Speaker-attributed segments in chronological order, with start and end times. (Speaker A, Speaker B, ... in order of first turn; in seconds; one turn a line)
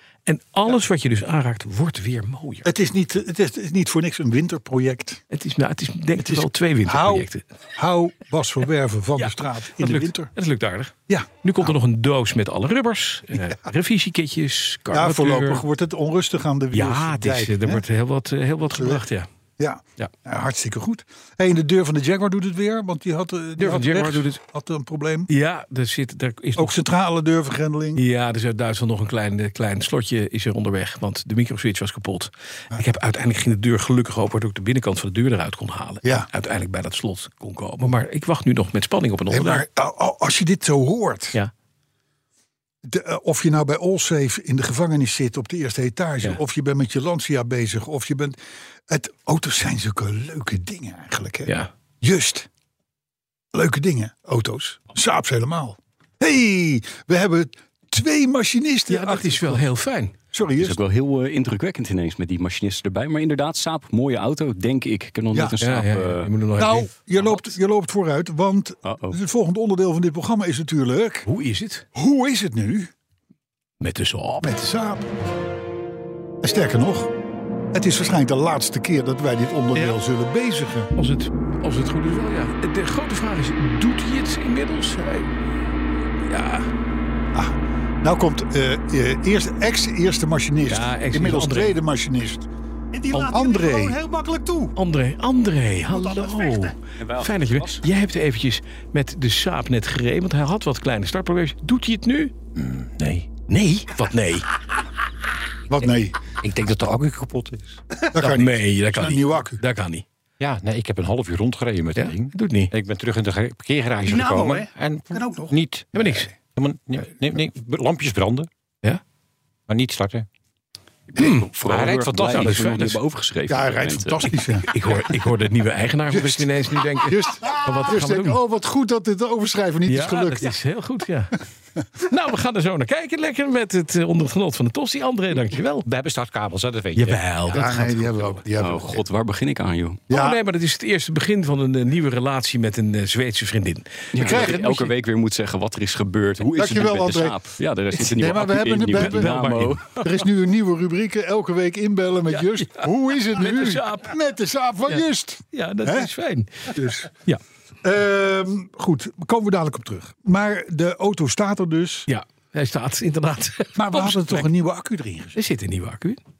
Speaker A: 0.2-2.7
Speaker B: 2.6-5.2
Speaker A: 5.3-7.4
Speaker B: 6.2-10.3
Speaker A: 9.2-15.6
Speaker B: 11.1-11.8
Speaker B: 14.9-17.8
Speaker A: 16.7-19.3
Speaker B: 18.7-19.0
Speaker B: 19.6-25.3
Speaker A: 23.6-24.4
Speaker A: 25.3-26.8
Speaker B: 26.6-28.0
Speaker A: 27.9-39.6
Speaker B: 39.3-41.4
Speaker B: 42.8-48.4
Speaker B: 48.9-52.5
Speaker A: 51.5-51.7
Speaker B: 53.5-59.7
Speaker A: 58.9-60.1
Speaker B: 60.3-60.8
Speaker C: 60.6-66.3
Speaker B: 65.3-65.6
Speaker A: 65.6-67.4
Speaker B: 66.6-71.2
Speaker C: 68.8-69.2
Speaker A: 71.2-71.8
Speaker B: 71.9-72.9
Speaker A: 73.8-74.5
Speaker B: 74.4-75.1
Speaker B: 76.4-77.1
Speaker B: 77.7-80.9
Speaker A: 81.0-85.5
Speaker A: 86.2-86.7
Speaker B: 87.3-92.5
Speaker A: 90.7-91.8
Speaker D: 92.9-94.7
Speaker B: 93.2-94.0
Speaker A: 94.8-102.3
Speaker D: 95.9-96.7
Speaker C: 97.0-97.8
Speaker E: 102.5-103.3
Speaker A: 103.5-104.5
Speaker B: 105.7-106.1
Speaker E: 106.4-107.8
Speaker B: 108.1-109.6
Speaker A: 108.1-110.0
Speaker E: 110.4-118.5
Speaker A: 112.0-112.7
Speaker D: 114.0-115.5
Speaker A: 115.9-116.3
Speaker E: 119.7-120.3
Speaker A: 121.2-121.5
Speaker C: 121.2-124.3
Speaker E: 121.2-122.8
Speaker A: 122.3-123.0
Speaker B: 123.5-124.7
Speaker A: 124.6-128.4
Speaker B: 126.1-126.5
Speaker B: 127.0-130.5
Speaker A: 129.9-131.3
Speaker A: 132.0-135.9
Speaker E: 135.8-137.2
Speaker A: 136.9-138.4
Speaker B: 137.5-139.0
Speaker C: 138.6-140.0
Speaker B: 140.1-140.4
Speaker A: 140.1-144.9
Speaker C: 144.1-150.0
Speaker B: 144.2-144.6
Speaker B: 146.5-147.4
Speaker B: 148.0-149.4
Speaker A: 148.9-150.0
Speaker B: 149.9-156.1
Speaker A: 152.3-154.1
Speaker A: 154.9-157.4
Speaker B: 156.7-157.1
Speaker B: 157.8-162.1
Speaker A: 162.1-164.5
Speaker B: 163.8-165.4
Speaker A: 165.3-166.2